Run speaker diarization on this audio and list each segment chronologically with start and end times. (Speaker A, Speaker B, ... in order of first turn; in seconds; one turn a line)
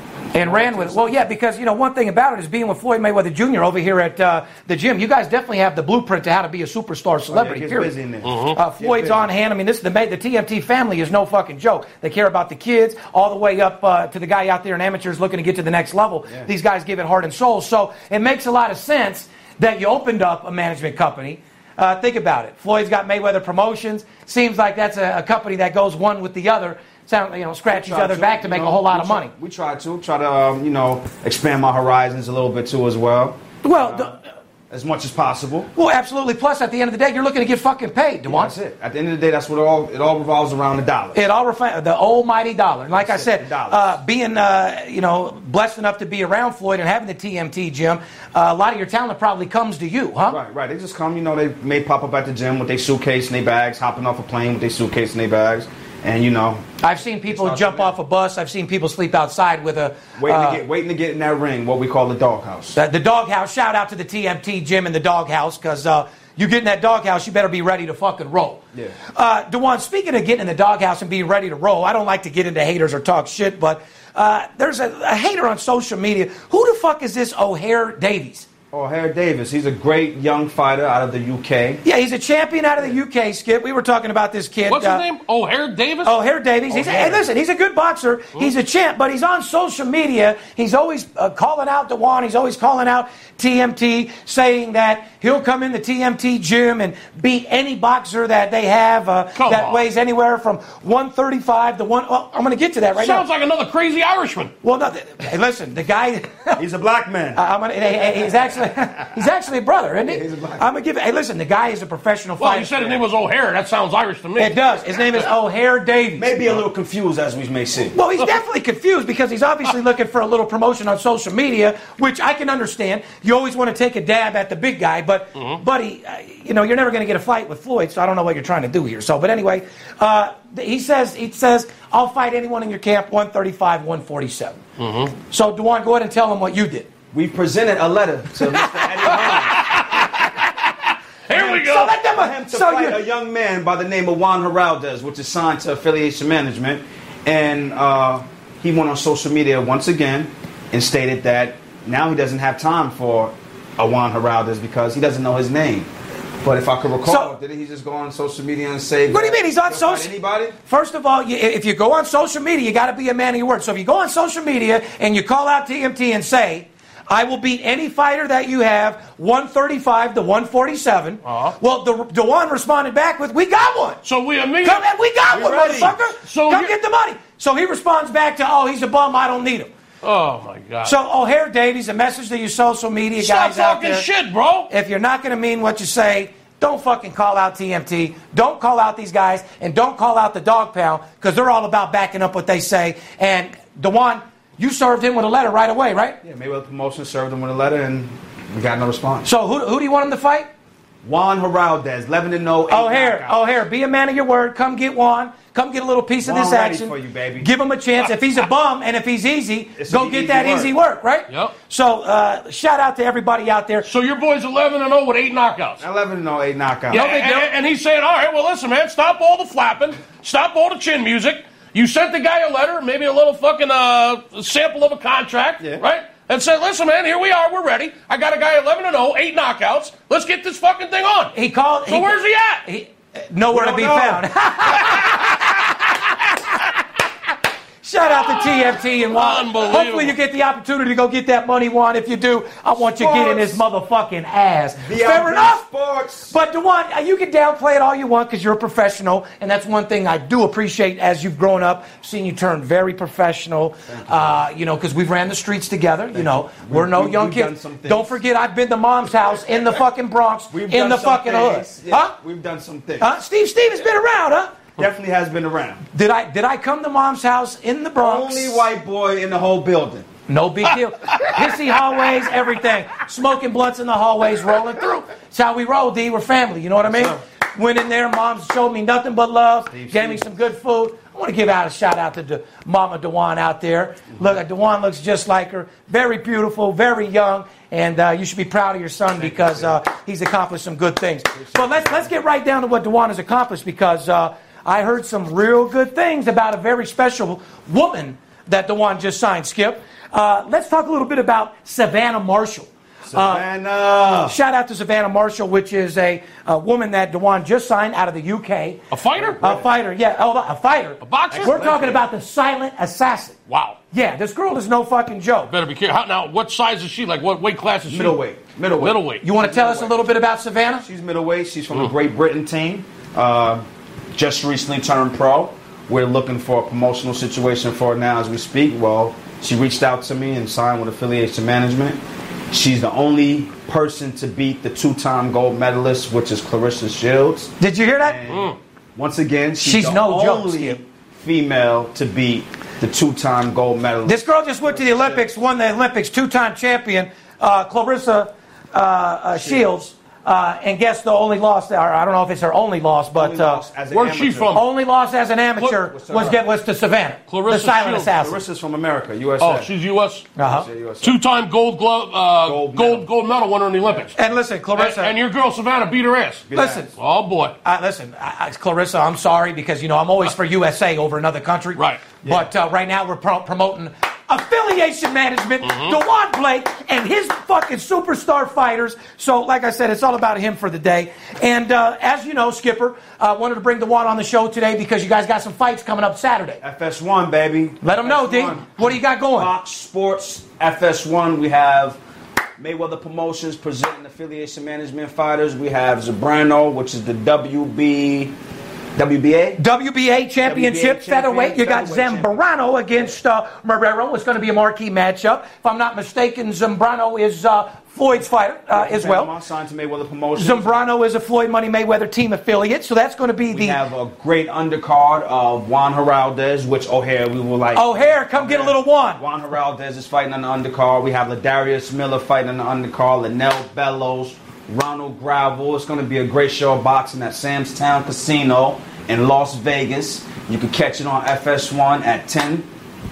Speaker A: 0.3-7.9
Speaker B: 0.3-1.2
Speaker B: 7.3-9.3
Speaker C: 8.2-8.6
Speaker A: 8.5-29.3
Speaker B: 27.7-34.2
Speaker A: 33.6-34.2
Speaker B: 34.7-35.7
Speaker A: 35.7-38.5
Speaker B: 38.3-41.2
Speaker A: 41.1-50.4
Speaker B: 43.0-43.9
Speaker B: 50.3-57.9
Speaker A: 56.8-60.6
Speaker B: 60.2-62.8
Speaker A: 62.7-68.6
Speaker A: 69.1-78.5
Speaker B: 78.7-81.8
Speaker A: 81.8-85.0
Speaker C: 84.7-86.1
Speaker A: 86.0-103.2
Speaker B: 86.7-87.2
Speaker C: 99.4-99.8
Speaker C: 103.0-104.5
Speaker A: 104.6-106.6
Speaker B: 106.6-107.4
Speaker A: 107.3-112.7
Speaker B: 110.0-110.6
Speaker C: 112.4-114.6
Speaker A: 114.4-116.2
Speaker B: 116.2-118.0
Speaker A: 117.9-134.6
Speaker C: 134.8-135.1
Speaker A: 135.3-136.9
Speaker B: 137.1-139.8
Speaker C: 139.1-140.4
Speaker C: 141.3-141.9
Speaker A: 141.3-143.0
Speaker B: 141.4-155.9
Speaker B: 156.4-160.6
Speaker A: 157.0-157.3
Speaker A: 159.1-160.1
Speaker A: 160.6-174.0
Speaker C: 171.2-171.5
Speaker C: 174.0-174.9
Speaker A: 174.6-179.7
Speaker B: 175.3-175.9
Speaker C: 176.2-176.7
Speaker C: 180.0-180.9
Speaker A: 180.8-184.1
Speaker C: 183.2-184.7
Speaker A: 184.7-196.2
Speaker B: 196.2-199.3
Speaker A: 199.2-200.5
Speaker B: 201.0-203.4
Speaker A: 202.7-213.8
Speaker B: 206.2-207.5
Speaker B: 209.8-210.7
Speaker C: 213.8-215.8
Speaker B: 215.8-217.0
Speaker A: 216.9-217.5
Speaker C: 216.9-231.3
Speaker A: 231.3-235.5
Speaker C: 231.9-232.6
Speaker B: 233.5-234.2
Speaker A: 237.8-245.6
Speaker C: 239.0-240.1
Speaker B: 242.8-243.6
Speaker B: 244.8-246.3
Speaker A: 246.3-262.1
Speaker B: 253.9-254.4
Speaker B: 256.1-258.2
Speaker B: 260.5-263.1
Speaker A: 263.0-264.6
Speaker B: 264.8-265.8
Speaker A: 265.9-268.6
Speaker B: 268.0-270.1
Speaker A: 270.3-303.4
Speaker B: 276.9-277.2
Speaker B: 279.7-280.2
Speaker B: 289.1-289.8
Speaker B: 291.3-292.1
Speaker B: 303.1-304.4
Speaker A: 304.2-308.8
Speaker C: 308.9-309.4
Speaker B: 309.2-309.7
Speaker A: 309.4-313.3
Speaker C: 311.0-311.6
Speaker B: 311.3-312.0
Speaker C: 313.5-313.8
Speaker A: 313.9-315.5
Speaker C: 315.5-318.2
Speaker B: 317.9-320.0
Speaker C: 318.8-319.2
Speaker A: 319.2-320.8
Speaker B: 320.8-332.0
Speaker B: 332.5-345.2
Speaker A: 337.6-338.2
Speaker C: 338.3-338.6
Speaker A: 339.6-340.8
Speaker A: 344.1-353.6
Speaker B: 349.3-349.6
Speaker B: 353.1-354.6
Speaker C: 353.9-354.6
Speaker A: 354.5-358.4
Speaker B: 355.8-356.4
Speaker C: 357.3-358.1
Speaker B: 358.2-359.7
Speaker C: 359.4-360.3
Speaker A: 360.4-360.7
Speaker B: 360.4-361.2
Speaker C: 361.0-364.1
Speaker B: 362.4-363.1
Speaker A: 364.1-365.1
Speaker C: 364.8-367.5
Speaker B: 366.5-366.9
Speaker A: 366.5-366.9
Speaker A: 367.6-386.6
Speaker C: 371.8-372.0
Speaker B: 372.2-372.5
Speaker C: 375.6-375.9
Speaker B: 386.6-392.0
Speaker A: 387.8-389.5
Speaker B: 392.6-398.3
Speaker B: 398.9-399.6
Speaker A: 399.6-409.3
Speaker B: 400.4-403.1
Speaker B: 408.7-410.7
Speaker A: 410.4-413.8
Speaker B: 413.5-432.7
Speaker A: 417.7-419.2